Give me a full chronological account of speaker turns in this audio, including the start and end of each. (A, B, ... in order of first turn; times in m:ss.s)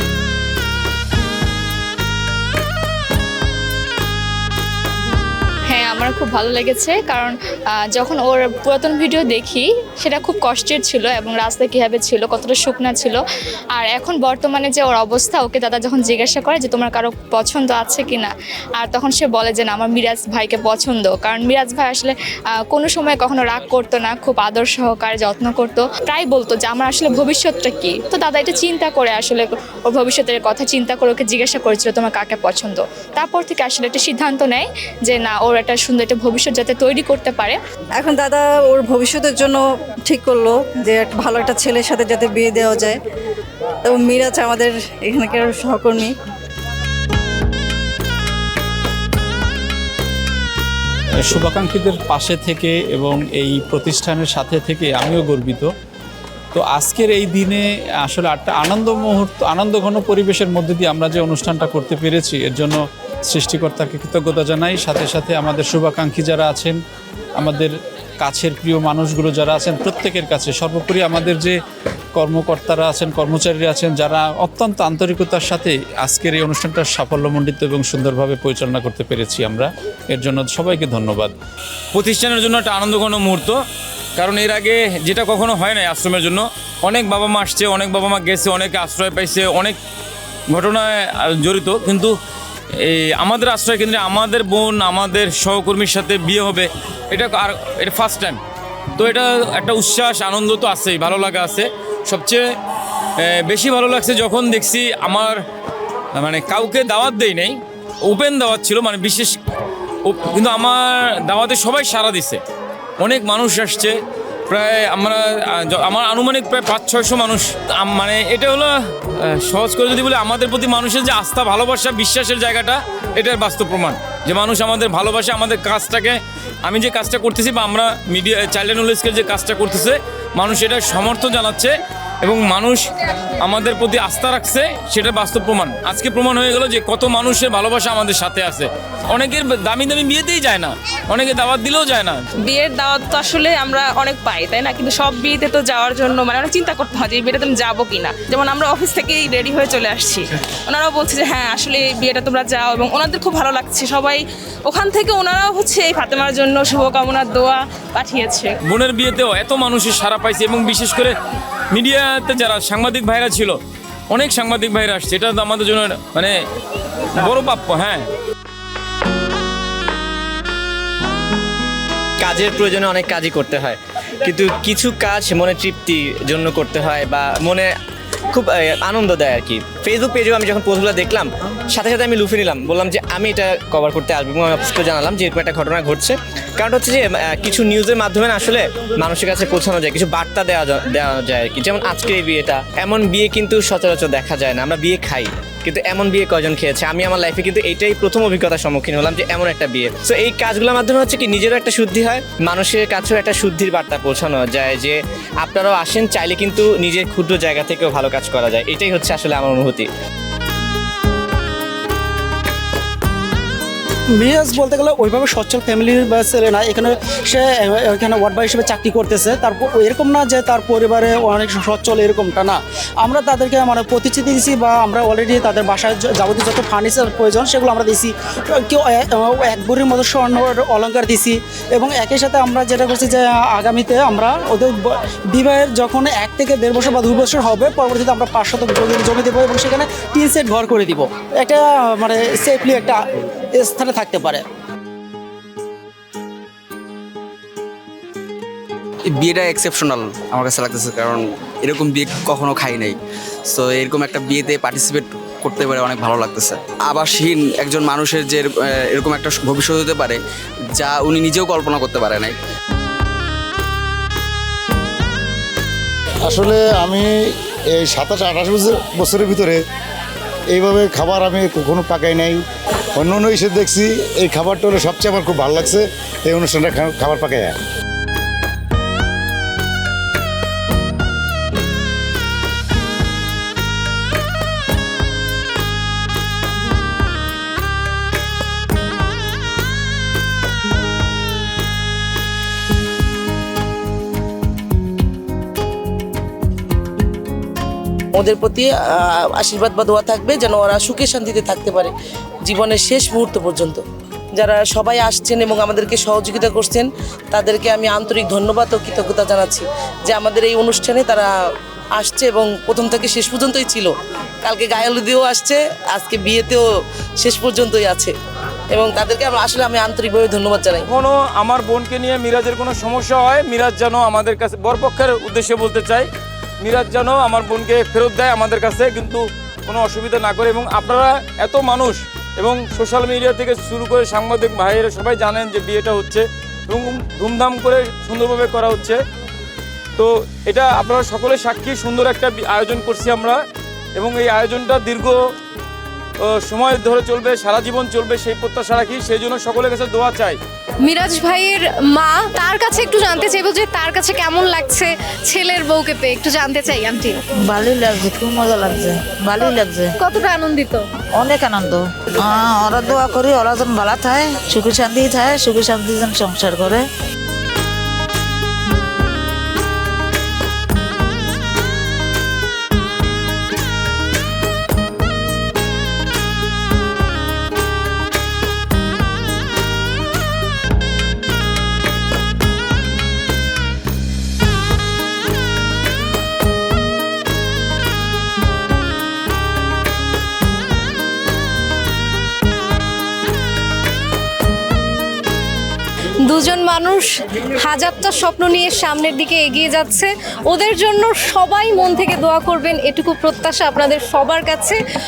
0:05.7-0:13.2 A
0:13.7-0:22.1 A
0:22.7-0:37.6 A
0:38.0-0:42.9 B
0:43.8-0:46.1 B
0:51.2-0:55.7 C
0:56.5-1:06.8 C
1:07.4-1:11.6 C
1:12.2-1:21.3 C
1:21.9-1:23.6 D
1:24.2-1:29.8 D
1:30.5-1:32.1 D
1:32.8-1:38.4 D
1:39.0-1:42.4 D
1:43.2-1:45.4 D
1:46.2-1:49.4 D
1:50.0-1:52.4 D
1:53.0-1:54.0 D
1:54.5-1:58.7 D
1:59.4-2:11.7 D
2:12.2-2:12.9 D
2:13.4-2:22.2 D
2:22.4-2:38.5 E
2:38.6-2:41.1 D
2:41.7-2:43.6 D
2:44.1-2:46.3 D
2:47.2-2:48.1 D
2:52.2-2:57.7 F
2:58.3-3:29.9 F
3:34.2-4:03.0 G
4:03.6-4:04.4 G
4:09.1-4:13.0 H
4:13.5-4:20.2 H
4:20.7-4:22.4 H
4:26.2-4:27.1 I
4:27.7-4:29.6 I
4:30.5-4:32.4 I
4:33.0-4:37.5 I
4:58.1-5:11.3 J
5:12.0-5:16.6 J
5:17.2-5:18.1 J
5:18.7-5:20.8 J
5:20.9-5:26.1 D
5:26.6-5:39.0 D
5:40.0-5:43.4 D
5:44.0-5:45.2 D
5:46.3-5:50.4 D
5:50.8-5:57.2 K
5:57.5-5:59.9 L
6:00.0-6:00.8 K
6:01.2-6:06.8 L
6:36.2-6:44.8 K